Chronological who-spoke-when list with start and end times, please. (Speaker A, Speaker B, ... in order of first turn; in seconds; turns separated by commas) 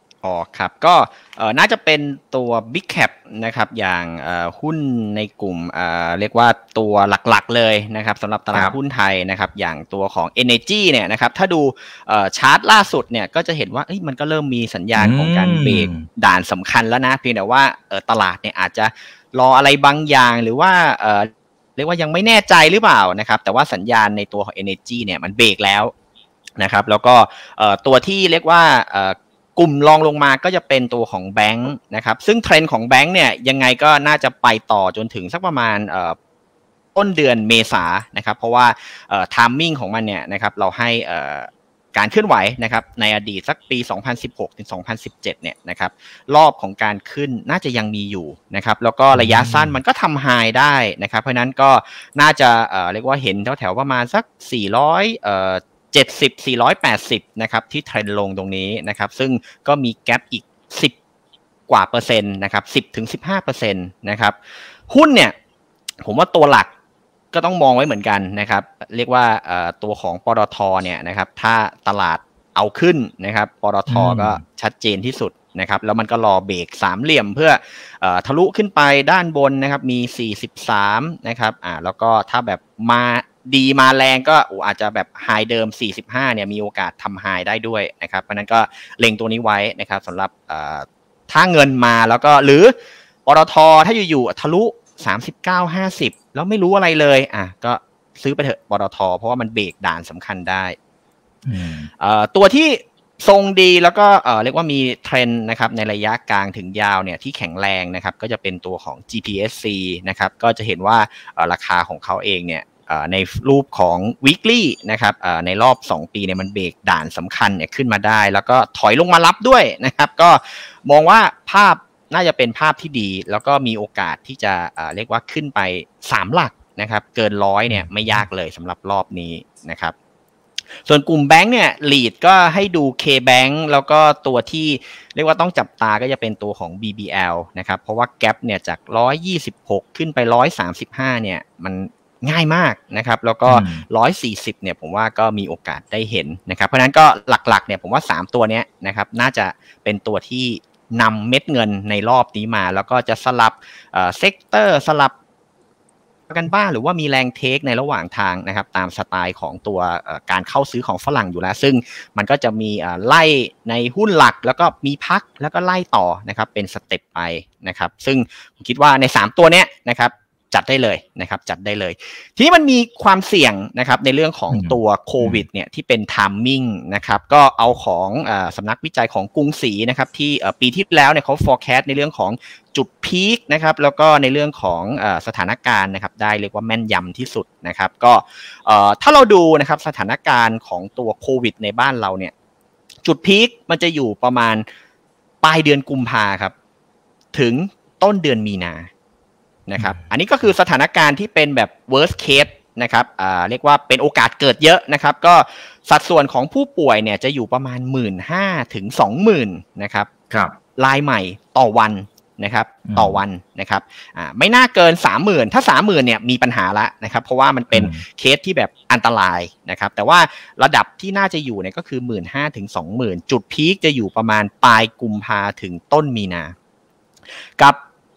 Speaker A: 0.2-25.9, Speaker B: 15.0-16.1, Speaker A: 26.6-36.1, Speaker A: 36.9-60.9, Speaker B: 49.1-49.7, Speaker A: 61.7-65.3, Speaker A: 66.0-66.7, Speaker A: 67.3-100.8, Speaker B: 73.9-74.4, Speaker B: 101.4-101.9, Speaker A: 102.0-129.9, Speaker B: 127.7-128.2, Speaker A: 130.8-155.1, Speaker B: 143.5-143.8, Speaker A: 156.3-192.3, Speaker B: 174.5-175.4, Speaker A: 193.0-194.6, Speaker A: 195.4-196.5, Speaker A: 197.3-198.9, Speaker A: 199.7-210.1, Speaker B: 210.3-210.5, Speaker A: 210.8-226.5, Speaker B: 212.9-213.2, Speaker B: 217.7-218.0